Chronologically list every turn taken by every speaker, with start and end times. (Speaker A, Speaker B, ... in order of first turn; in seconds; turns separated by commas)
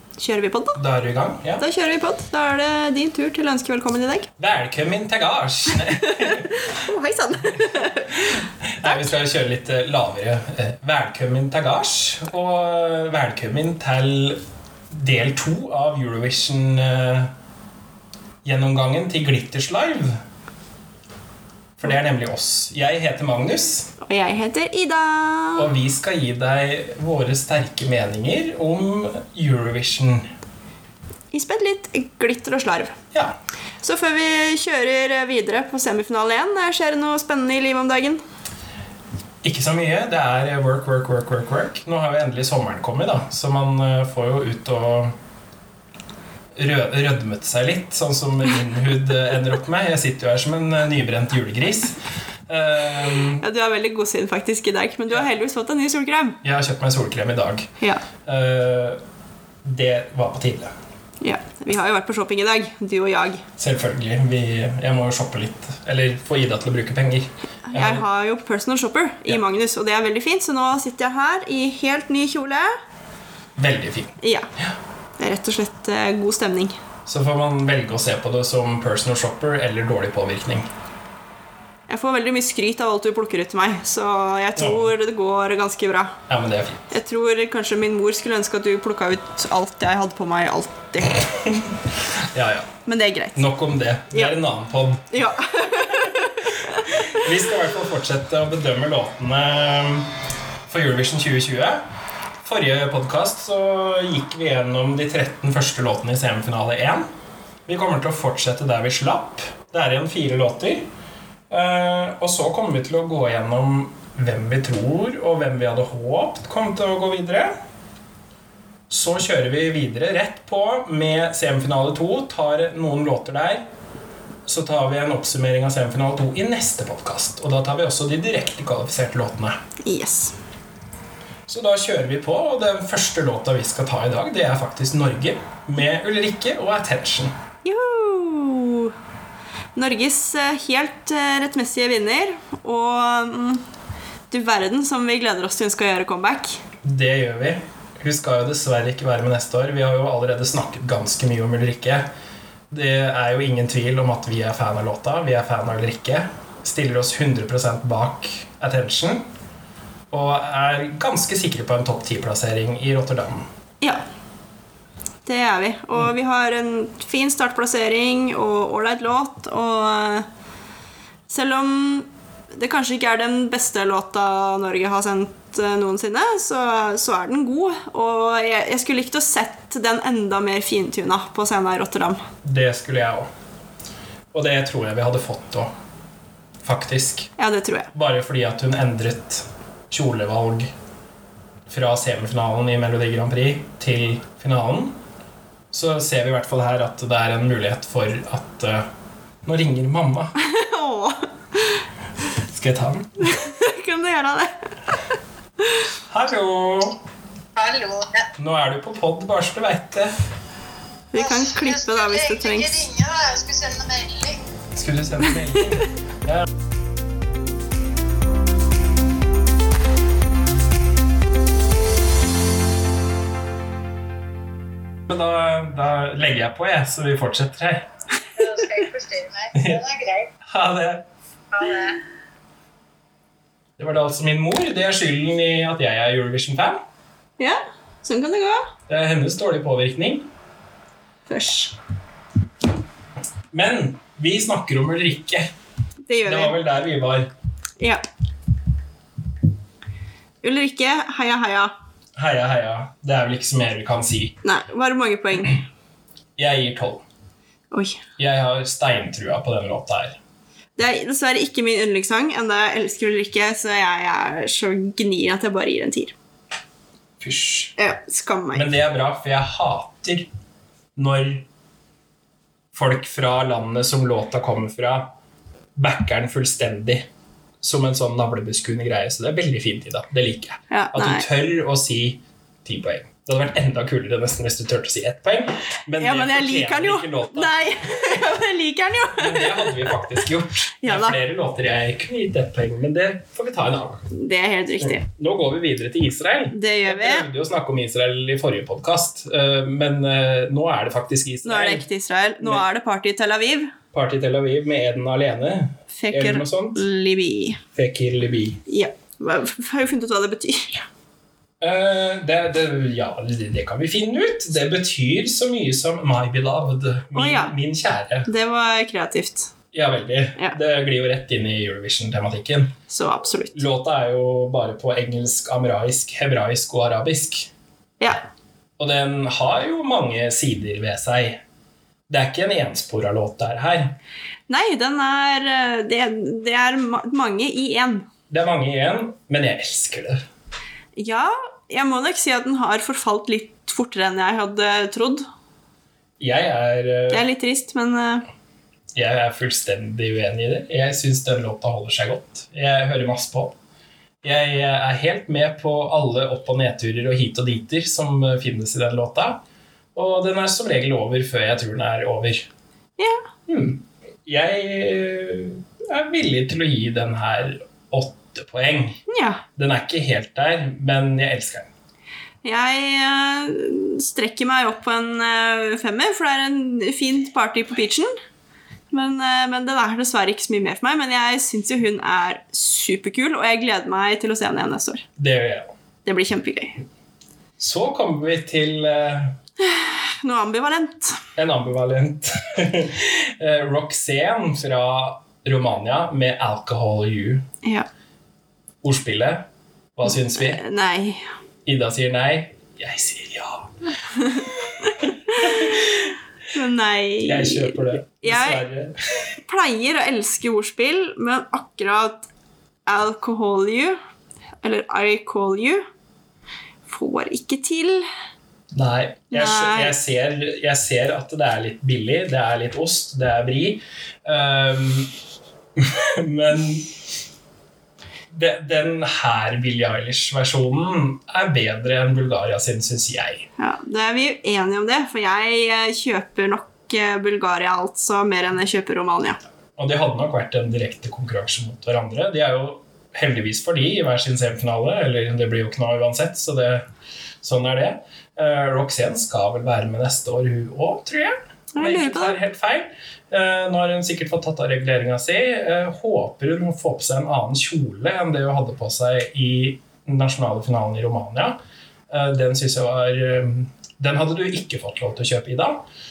Speaker A: 0.2-0.8, Speaker B: 0.7-1.6, Speaker A: 1.6-4.3, Speaker B: 4.4-6.7, Speaker A: 6.1-9.1, Speaker B: 7.5-17.3, Speaker B: 18.4-20.2, Speaker B: 21.8-23.9, Speaker A: 24.0-25.7, Speaker B: 25.6-30.3, Speaker A: 31.3-33.0, Speaker A: 33.8-38.2, Speaker B: 39.4-45.1, Speaker B: 46.5-53.4, Speaker A: 53.4-56.4, Speaker B: 56.4-59.0, Speaker A: 57.8-58.0, Speaker B: 59.6-60.7, Speaker A: 61.2-63.4, Speaker B: 63.6-68.0, Speaker A: 67.7-72.7, Speaker B: 73.5-74.8, Speaker A: 74.2-74.5, Speaker A: 75.2-76.8, Speaker B: 77.0-80.7, Speaker A: 81.9-86.2, Speaker B: 84.6-84.9, Speaker B: 86.3-86.9, Speaker A: 86.9-91.2, Speaker B: 91.4-92.7, Speaker A: 92.9-93.4, Speaker B: 93.3-95.3, Speaker A: 95.1-97.0, Speaker B: 95.9-100.1, Speaker B: 100.7-101.8, Speaker B: 102.4-107.0, Speaker B: 107.7-110.9, Speaker B: 111.5-117.5, Speaker B: 118.9-123.7, Speaker B: 124.5-129.6, Speaker A: 129.8-130.4, Speaker B: 131.5-137.3, Speaker A: 137.6-138.9, Speaker A: 139.8-143.6, Speaker A: 144.3-146.6, Speaker B: 146.8-152.1, Speaker B: 152.7-159.2, Speaker B: 160.1-163.5, Speaker A: 165.2-170.2, Speaker A: 171.3-182.2, Speaker B: 182.4-183.3, Speaker B: 184.3-185.7, Speaker B: 186.6-187.3, Speaker A: 187.4-187.9, Speaker B: 187.9-190.7, Speaker B: 191.7-195.0, Speaker B: 195.7-198.9, Speaker B: 199.4-200.3, Speaker A: 200.4-201.8, Speaker B: 202.5-203.3, Speaker A: 203.2-204.7, Speaker B: 206.1-207.0, Speaker C: 207.6-208.3, Speaker B: 208.4-210.1, Speaker A: 211.1-212.7, Speaker C: 211.1-214.4, Speaker B: 214.7-216.5, Speaker B: 225.1-227.9, Speaker C: 228.4-230.3, Speaker B: 230.4-231.1, Speaker C: 231.5-232.0, Speaker B: 233.8-236.8, Speaker A: 237.4-238.7, Speaker B: 238.9-240.3, Speaker A: 241.3-241.8, Speaker B: 243.5-245.5, Speaker A: 246.1-246.6, Speaker B: 246.2-247.3, Speaker A: 250.4-251.7, Speaker B: 252.2-254.4, Speaker A: 254.4-255.6, Speaker B: 256.4-257.0, Speaker A: 257.7-258.0, Speaker B: 258.2-260.2, Speaker A: 260.8-266.1, Speaker B: 267.2-267.8, Speaker A: 267.8-268.7, Speaker B: 268.5-270.3, Speaker B: 270.9-271.4, Speaker B: 272.7-275.1, Speaker B: 275.8-277.1, Speaker B: 277.6-288.2, Speaker A: 280.7-281.2, Speaker A: 286.0-290.2, Speaker B: 289.1-294.1, Speaker A: 290.8-291.1, Speaker A: 294.1-295.0, Speaker B: 294.8-301.9, Speaker A: 296.5-297.2, Speaker A: 301.4-303.7, Speaker B: 303.9-306.8, Speaker A: 305.9-307.6, Speaker B: 307.7-308.6, Speaker A: 308.7-310.9, Speaker B: 311.6-318.3, Speaker A: 317.1-317.5, Speaker A: 318.3-319.5, Speaker B: 319.7-322.8, Speaker A: 322.9-323.6, Speaker B: 323.5-327.5, Speaker B: 328.8-331.4, Speaker B: 332.1-334.0, Speaker A: 334.5-338.1, Speaker B: 338.3-340.2, Speaker A: 340.9-345.2, Speaker B: 346.2-347.2, Speaker A: 347.1-348.3, Speaker B: 348.9-353.6, Speaker B: 354.2-359.4, Speaker B: 359.9-362.5, Speaker A: 363.0-363.2, Speaker B: 363.5-369.0, Speaker A: 369.1-369.4, Speaker B: 369.6-371.7, Speaker A: 372.4-378.1, Speaker A: 378.9-385.0, Speaker B: 385.2-385.7, Speaker A: 386.0-386.8, Speaker B: 387.6-389.4, Speaker A: 389.6-391.2, Speaker B: 391.4-397.4, Speaker B: 398.8-400.6, Speaker A: 400.3-401.2, Speaker B: 401.6-406.1, Speaker A: 405.3-405.7, Speaker A: 406.5-408.6, Speaker B: 407.2-409.3, Speaker A: 409.4-412.3, Speaker A: 412.9-414.0, Speaker A: 414.6-415.9, Speaker A: 416.9-418.1, Speaker B: 418.7-425.1, Speaker A: 419.3-419.9, Speaker B: 425.8-426.9, Speaker B: 428.3-433.5, Speaker A: 433.6-439.4, Speaker B: 439.8-446.9, Speaker B: 447.4-461.6, Speaker A: 451.7-452.4, Speaker B: 462.1-465.8